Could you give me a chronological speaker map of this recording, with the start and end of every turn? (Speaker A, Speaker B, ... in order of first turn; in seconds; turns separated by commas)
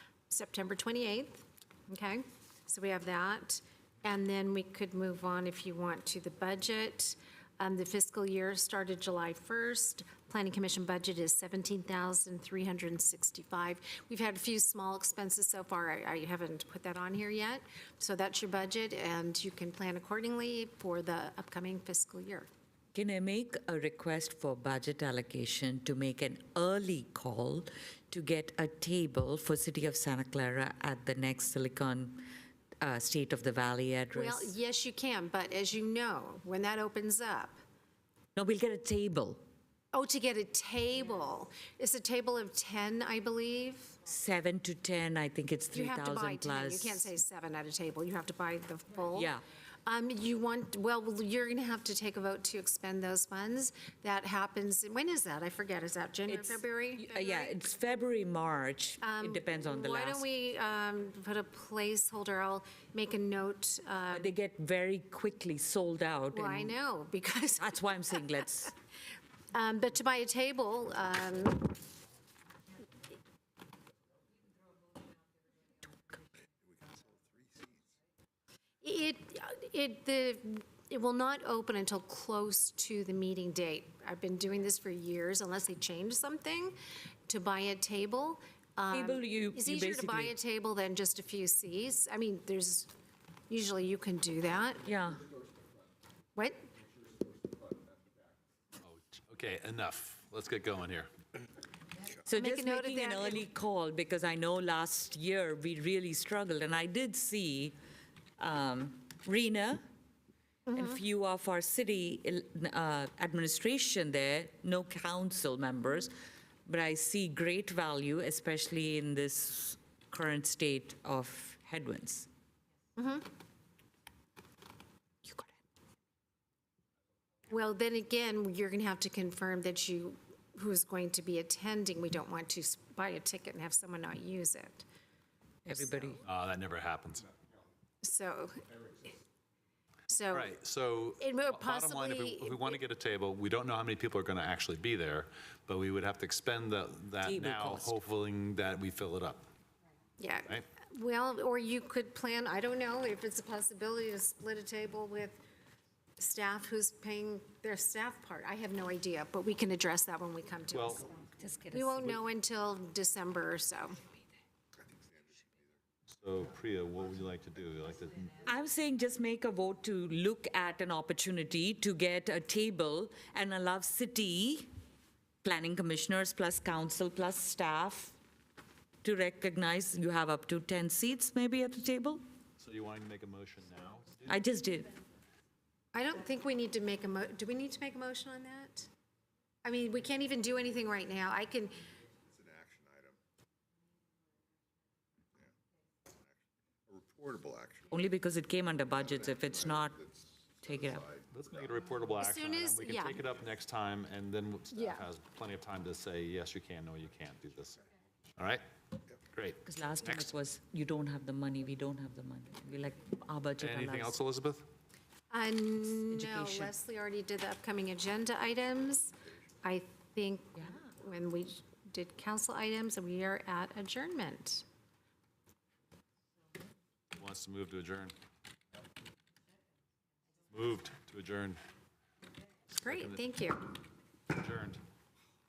Speaker A: 0.3-22.5, Speaker B: 22.9-32.2, Speaker B: 32.8-34.5, Speaker A: 34.1-37.6, Speaker B: 38.4-39.4, Speaker A: 39.9-44.0, Speaker B: 44.1-47.1, Speaker A: 45.7-49.3, Speaker B: 49.1-49.4, Speaker A: 49.9-57.4, Speaker B: 56.3-60.2, Speaker A: 59.0-64.3, Speaker B: 64.1-66.7, Speaker A: 66.3-68.2, Speaker B: 67.6-68.7, Speaker A: 69.5-71.7, Speaker C: 76.6-77.8, Speaker A: 78.8-92.9, Speaker B: 88.9-90.3, Speaker A: 93.5-94.8, Speaker B: 94.8-95.3, Speaker A: 96.3-96.7, Speaker C: 97.1-98.2, Speaker D: 98.8-101.1, Speaker B: 102.2-107.7, Speaker A: 102.3-103.5, Speaker B: 108.4-109.8, Speaker A: 110.7-111.0, Speaker B: 110.7-116.1, Speaker B: 116.7-122.3, Speaker A: 123.0-123.2, Speaker A: 127.5-134.8, Speaker B: 135.6-136.2, Speaker D: 136.2-137.3, Speaker A: 138.0-138.6, Speaker A: 140.1-140.5, Speaker D: 140.3-149.4, Speaker A: 141.2-142.8, Speaker B: 147.2-147.9, Speaker A: 150.2-155.4, Speaker A: 156.2-161.2, Speaker D: 160.7-161.0, Speaker B: 161.4-162.0, Speaker A: 161.7-164.0, Speaker C: 164.8-165.6, Speaker D: 166.1-168.4, Speaker B: 168.4-174.7, Speaker B: 175.4-178.2, Speaker B: 179.0-182.2, Speaker D: 182.6-184.4, Speaker B: 184.3-184.9, Speaker A: 185.9-188.9, Speaker A: 189.6-191.8, Speaker C: 192.2-193.2, Speaker C: 196.9-197.9, Speaker B: 197.9-200.0, Speaker C: 199.1-201.3, Speaker B: 200.6-201.1, Speaker D: 201.3-207.8, Speaker A: 202.2-203.2, Speaker A: 204.7-205.1, Speaker D: 208.4-208.6, Speaker D: 209.3-210.3, Speaker B: 209.6-214.1, Speaker D: 213.6-214.7, Speaker A: 215.3-224.7, Speaker B: 216.1-216.7, Speaker B: 220.6-220.9, Speaker D: 227.2-228.1, Speaker D: 230.5-231.6, Speaker D: 232.7-233.2, Speaker A: 232.7-233.8, Speaker D: 234.3-234.8